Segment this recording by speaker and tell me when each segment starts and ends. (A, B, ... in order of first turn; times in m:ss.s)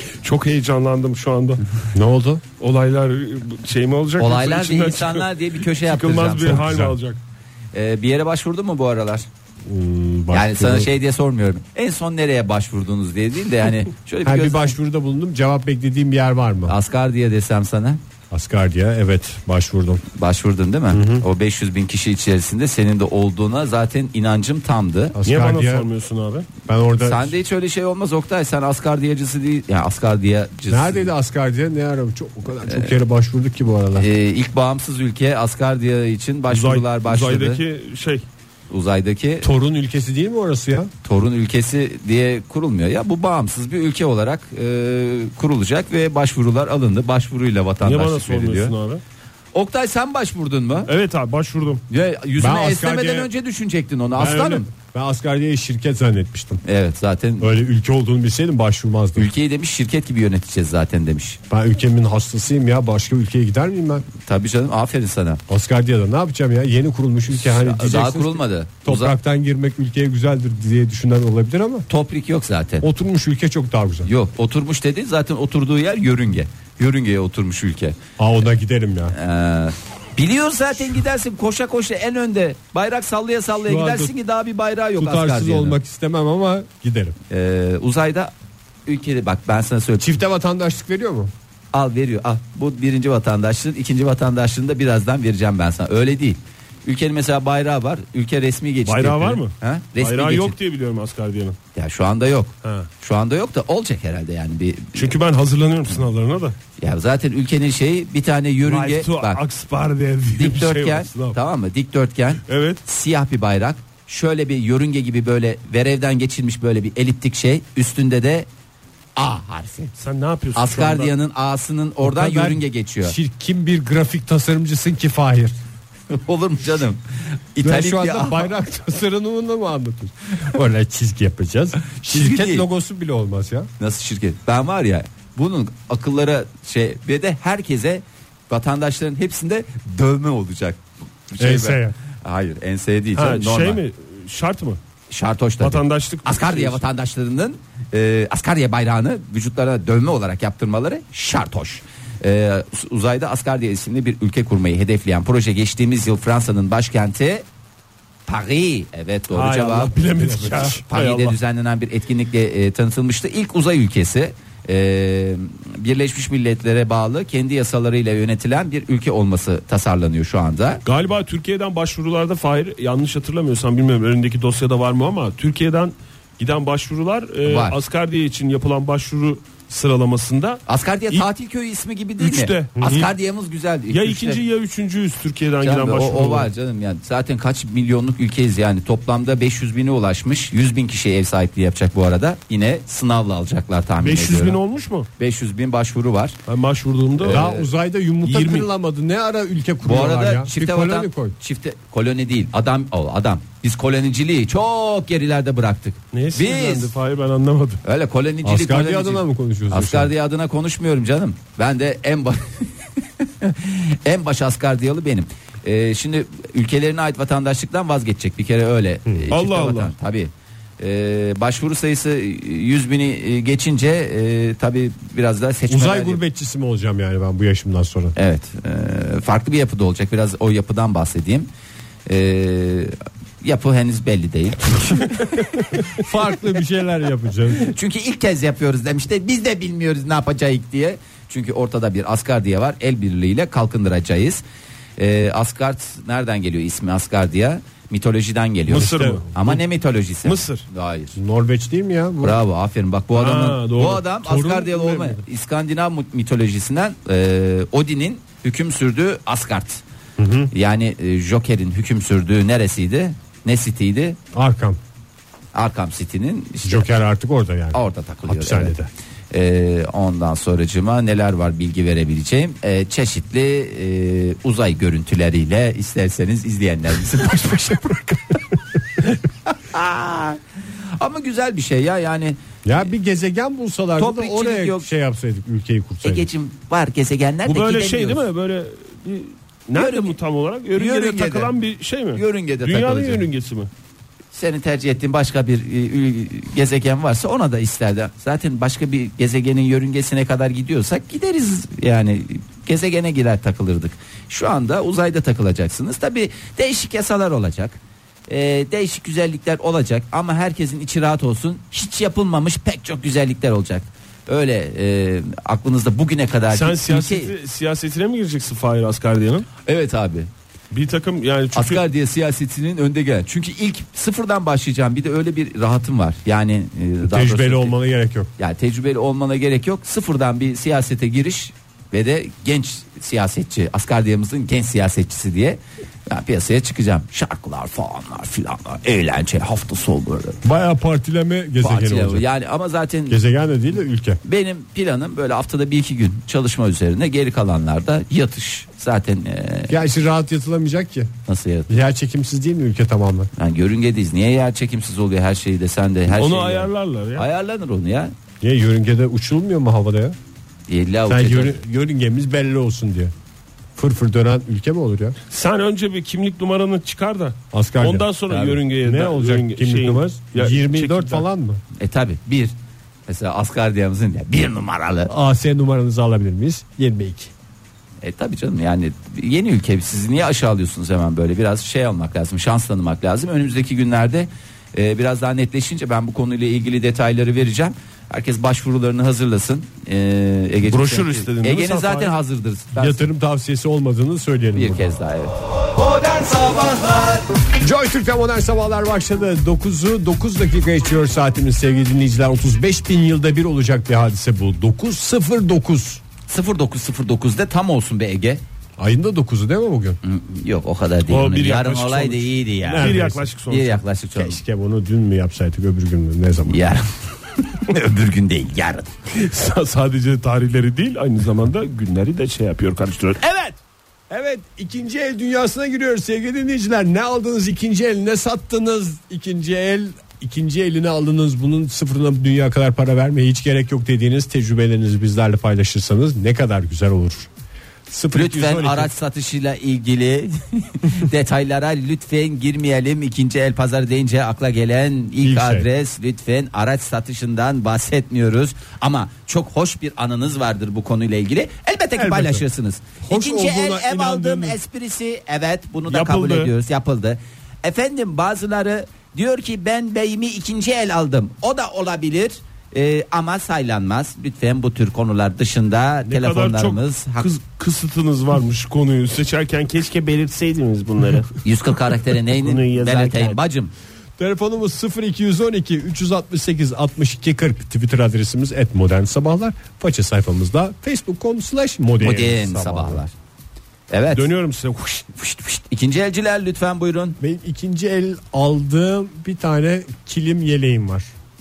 0:00.2-0:01.6 A
0:01.9-0:02.4 B
0:02.6-0:07.2 A
0:04.2-0:06.8 C
0:06.5-0:07.0 B
0:07.7-0:09.2 C
0:09.6-0:10.9 B
0:10.3-0:14.7 C
0:14.2-0:16.7 B
0:16.7-0:18.0 C
0:18.3-0:20.0 B
0:20.1-0:25.2 C
0:20.9-0:21.2 B
0:25.1-0:25.9 B
0:25.2-0:26.5 A
0:26.6-0:27.3 B
0:27.0-0:31.1 C
0:30.7-0:34.1 B
0:32.6-0:32.9 C
0:34.0-0:37.6 C
0:36.5-0:38.2 A
0:38.7-0:39.5 C
0:39.4-0:40.9 B
0:41.0-0:48.7 C
0:47.8-0:49.0 A
0:49.5-0:50.9 C
0:50.9-0:51.8 A
0:51.9-0:54.7 C
0:52.4-0:53.3 B
0:54.2-0:56.6 B
0:56.6-0:57.5 C
0:57.4-0:59.3 B
0:59.2-1:01.4 C
1:01.5-1:04.0 B
1:04.2-1:05.4 C
1:05.5-1:11.8 B
1:07.4-1:09.1 C
1:11.9-1:12.8 C
1:12.8-1:14.1 B
1:14.0-1:18.0 C
1:18.2-1:19.1 B
1:19.1-1:25.8 C
1:23.6-1:24.1 B
1:25.0-1:27.2 B
1:27.3-1:28.3 C
1:28.8-1:30.0 C
1:30.0-1:31.3 B
1:31.7-1:40.5 C
1:38.8-1:41.6 A
1:41.7-1:45.1 C
1:44.9-1:46.5 A
1:46.8-1:49.4 C
1:48.6-1:51.4 A
1:50.3-1:58.5 C
1:52.5-1:52.8 A
1:59.2-1:59.9 C
2:00.0-2:01.1 A
2:00.5-2:03.1 C
2:02.0-2:05.6 B
2:06.1-2:08.5 C
2:07.6-2:13.7 B
2:11.9-2:12.6 C
2:13.8-2:23.8 C
2:21.4-2:21.9 B
2:23.2-2:24.8 A
2:25.1-2:37.4 C
2:25.6-2:26.8 A
2:38.3-2:50.8 C
2:39.3-2:41.4 A
2:50.8-3:00.6 A
2:57.4-2:57.8 C
3:00.7-3:04.4 C
3:02.2-3:03.1 A
3:03.9-3:06.5 A
3:05.6-3:14.6 C
3:14.0-3:15.1 A
3:15.2-3:16.4 C
3:16.5-3:17.4 A
3:17.2-3:17.7 C
3:17.3-3:21.3 B
3:18.3-3:18.6 A
3:19.8-3:26.9 C
3:26.1-3:27.8 A
3:27.8-3:32.7 C
3:28.4-3:30.1 B
3:33.2-3:46.2 C
3:39.3-3:39.9 A
3:45.7-3:48.1 B
3:48.2-3:51.5 C
3:52.1-3:55.2 C
3:55.4-3:57.6 B
3:57.6-4:04.4 C
4:05.0-4:11.1 C
4:08.7-4:09.6 A
4:08.7-4:09.2 B
4:10.2-4:10.6 A
4:11.2-4:12.4 B
4:12.2-4:19.8 C
4:13.1-4:14.0 A
4:14.2-4:15.2 B
4:20.2-4:20.5 B
4:20.5-4:24.2 C
4:24.3-4:24.8 B
4:25.5-4:26.9 C
4:26.6-4:28.9 B
4:27.7-4:28.7 C
4:29.3-4:38.4 C
4:39.4-4:40.4 C
4:41.0-4:42.4 C
4:42.6-4:46.3 B
4:44.0-4:44.9 C
4:46.0-4:48.2 C
4:47.4-4:53.7 A
4:49.7-4:50.1 C
4:50.7-4:51.5 C
4:52.1-4:53.2 C
4:54.3-5:07.8 C
5:08.3-5:17.3 C
5:16.5-5:19.4 A
5:19.6-5:20.3 C
5:20.7-5:21.8 A
5:21.5-5:27.7 C
5:27.0-5:28.3 B
5:28.4-5:40.4 C
5:40.4-5:42.3 B
5:41.6-5:43.2 C
5:43.1-5:44.2 B
5:44.2-5:49.8 C
5:49.7-5:51.1 B
5:51.3-5:51.7 C
5:51.7-5:53.3 B
5:53.4-5:58.1 C
5:56.1-5:57.2 A
5:58.4-6:00.2 B
6:00.7-6:01.6 C
6:01.1-6:03.1 B
6:03.8-6:05.2 B
6:05.3-6:11.2 A
6:07.5-6:08.1 B
6:08.3-6:08.6 C
6:08.7-6:11.6 B
6:11.8-6:12.5 C
6:13.1-6:15.1 C
6:15.1-6:17.3 B
6:18.0-6:33.0 C
6:30.7-6:32.2 A
6:32.7-6:34.9 B
6:34.5-6:37.2 C
6:37.6-6:46.0 B
6:46.3-6:48.4 C
6:48.8-6:50.0 B
6:50.0-6:54.4 C
6:51.1-6:53.8 A
6:52.7-6:53.2 B
6:54.2-6:56.7 B
6:56.5-6:56.8 C
6:57.5-6:58.9 C
6:59.2-7:03.6 A
7:04.1-7:17.3 B
7:17.9-7:18.9 B
7:18.1-7:47.3 C
7:25.2-7:25.7 B
7:31.9-7:32.4 B
7:33.0-7:34.6 B
7:35.9-7:36.5 A
7:46.1-7:51.3 A
7:51.4-7:53.7 C
7:52.4-7:53.4 A
7:54.2-8:03.0 B
8:02.0-8:03.1 C
8:03.9-8:04.3 C
8:04.1-8:05.0 A
8:05.1-8:07.2 C
8:07.2-8:11.1 B